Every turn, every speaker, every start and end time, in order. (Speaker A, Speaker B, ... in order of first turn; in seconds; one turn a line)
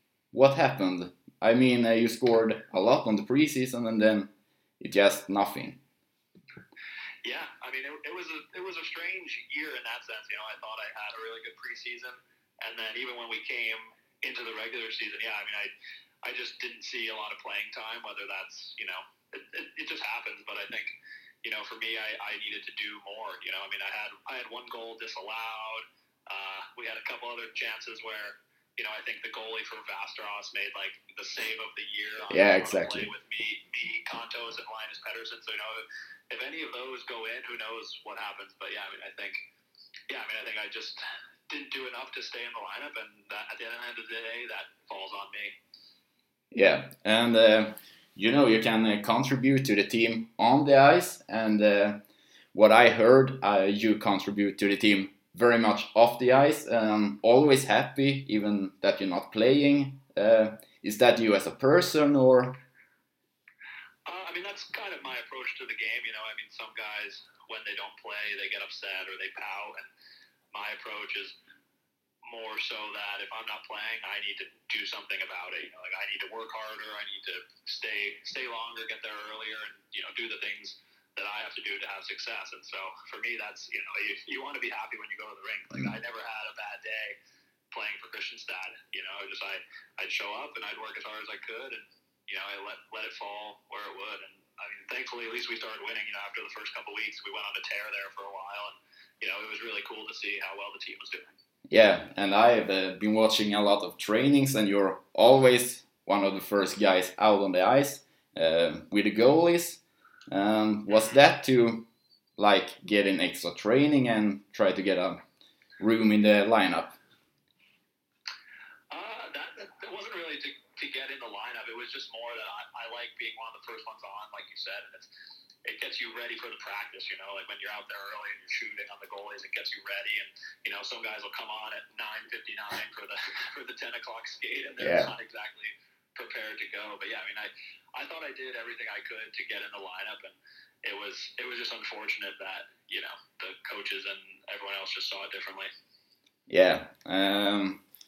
Speaker A: 0.3-4.3
Speaker A: 4.8-5.8
Speaker B: 7.2-15.7
Speaker B: 16.2-39.4
Speaker A: 32.3-33.1
Speaker B: 40.1-45.5
Speaker A: 46.5-52.0
Speaker A: 52.5-62.6
Speaker B: 64.0-69.9
Speaker B: 70.5-71.3
Speaker B: 72.2-87.2
Speaker B: 87.7-101.2
Speaker A: 101.7-111.8
Speaker A: 112.4-115.2
Speaker A: 115.8-117.0
Speaker B: 118.9-125.1
Speaker B: 125.6-145.7
Speaker A: 134.8-135.1
Speaker A: 146.5-147.8